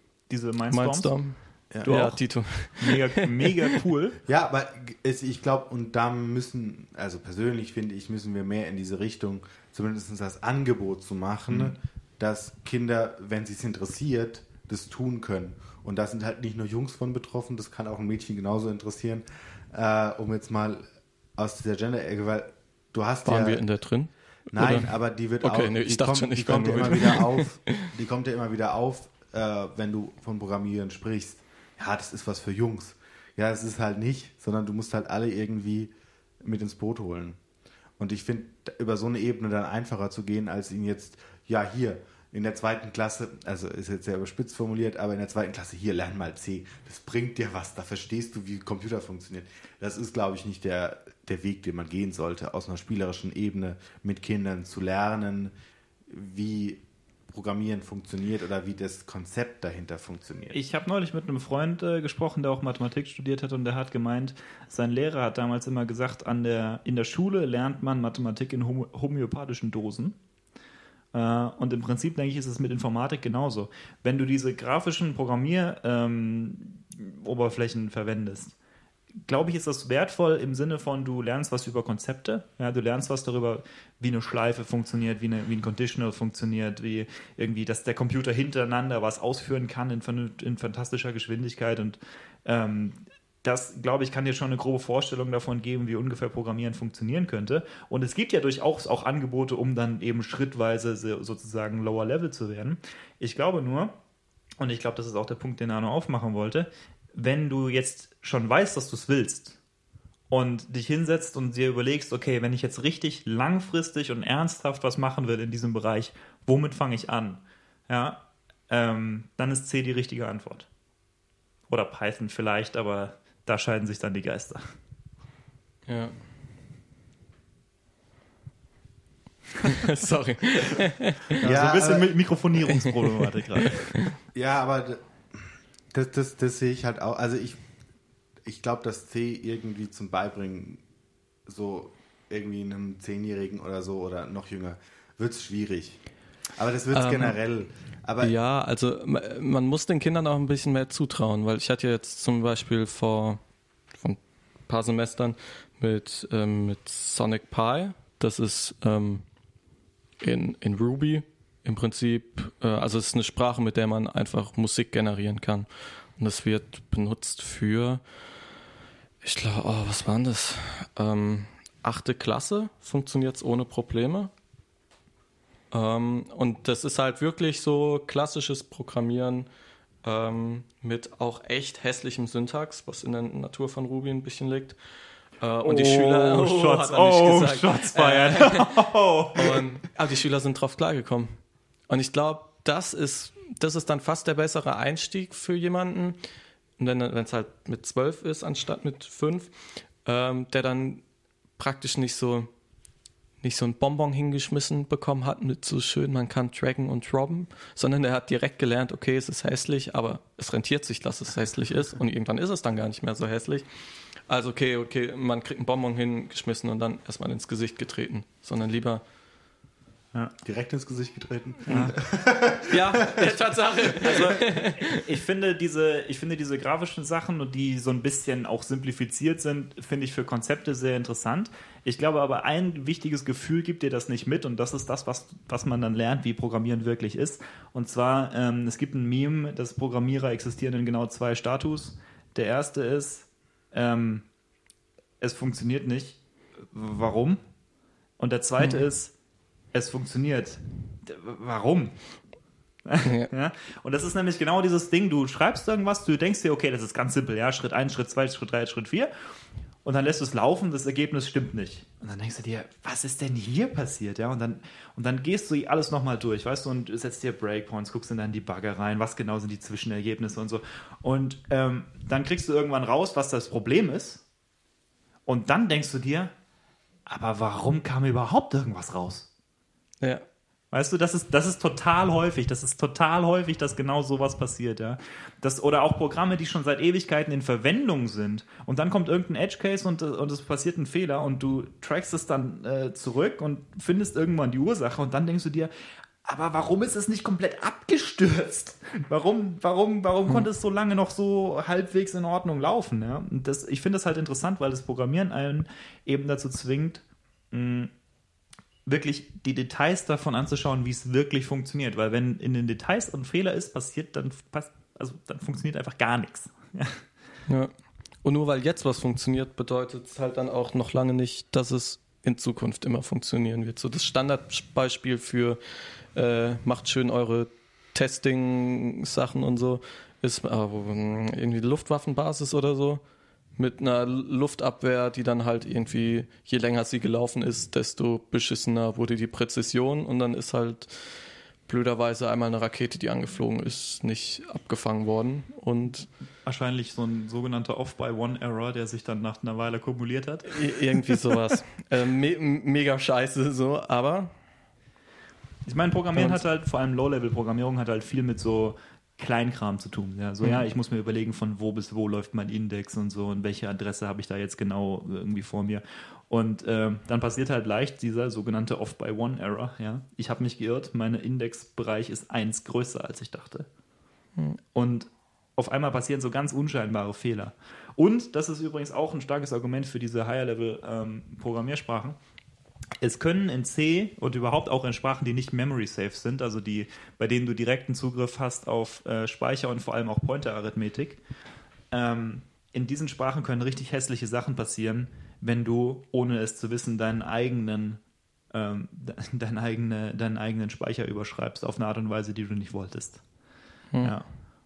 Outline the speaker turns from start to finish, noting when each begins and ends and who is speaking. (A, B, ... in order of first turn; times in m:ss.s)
0:00.3-0:01.1 A
0:00.7-0:03.8 B
0:01.8-0:02.2 A
0:02.8-0:04.2 A
0:04.2-0:20.8 C
0:21.4-0:23.6 C
0:23.2-0:24.9 B
0:24.5-0:35.9 C
0:25.4-0:27.9 B
0:36.4-0:37.4 C
0:38.0-0:55.5 C
0:56.1-1:00.6 C
1:00.5-1:10.2 A
1:11.1-1:18.5 A
1:19.2-1:43.9 A
1:44.6-1:49.6 A
1:50.3-2:00.7 A
2:01.7-2:04.7 A
2:05.9-2:06.1 B
2:09.7-2:11.4 B
2:11.4-2:13.9 A
2:11.4-2:12.1 C
2:12.8-2:14.1 B
2:14.3-2:17.6 C
2:18.4-2:20.8 C
2:21.4-2:26.0 C
2:26.6-2:28.3 C
2:26.9-2:27.4 B
2:28.2-2:33.4 B
2:33.9-2:39.2 B
2:40.2-2:48.0 B
2:49.2-2:54.3 B
2:55.7-2:59.5 B
3:00.0-3:04.8 B
3:05.4-3:11.3 B
3:05.6-3:09.6 A
3:11.9-3:16.2 B
3:16.8-3:21.0 B
3:21.6-3:22.5 B
3:23.4-3:33.7 B
3:34.3-3:39.0 B
3:40.4-3:44.0 C
3:41.7-3:41.9 A
3:42.7-3:45.1 B
3:44.0-4:04.2 A
4:05.2-4:06.2 A
4:06.7-4:07.4 A
4:08.2-4:09.1 A
4:08.6-4:08.8 B
4:09.7-4:11.9 A
4:12.8-4:19.1 A
4:13.0-4:13.3 B
4:19.8-4:34.2 A
4:35.2-4:36.3 A
4:37.1-4:39.3 A
4:40.7-4:55.7 A
4:56.2-5:07.9 A
5:08.8-5:17.0 A
5:17.5-5:17.7 B
5:18.2-5:25.6 B
5:26.1-5:33.0 B
5:33.6-5:46.1 B
5:46.4-5:51.3 A
5:50.5-5:54.3 B
5:55.6-6:13.7 A
5:56.1-5:56.4 B
6:00.4-6:00.7 B
6:14.7-6:22.2 A
6:23.0-6:31.2 A
6:31.9-6:38.0 A
6:38.5-6:43.2 A
6:44.0-6:44.2 A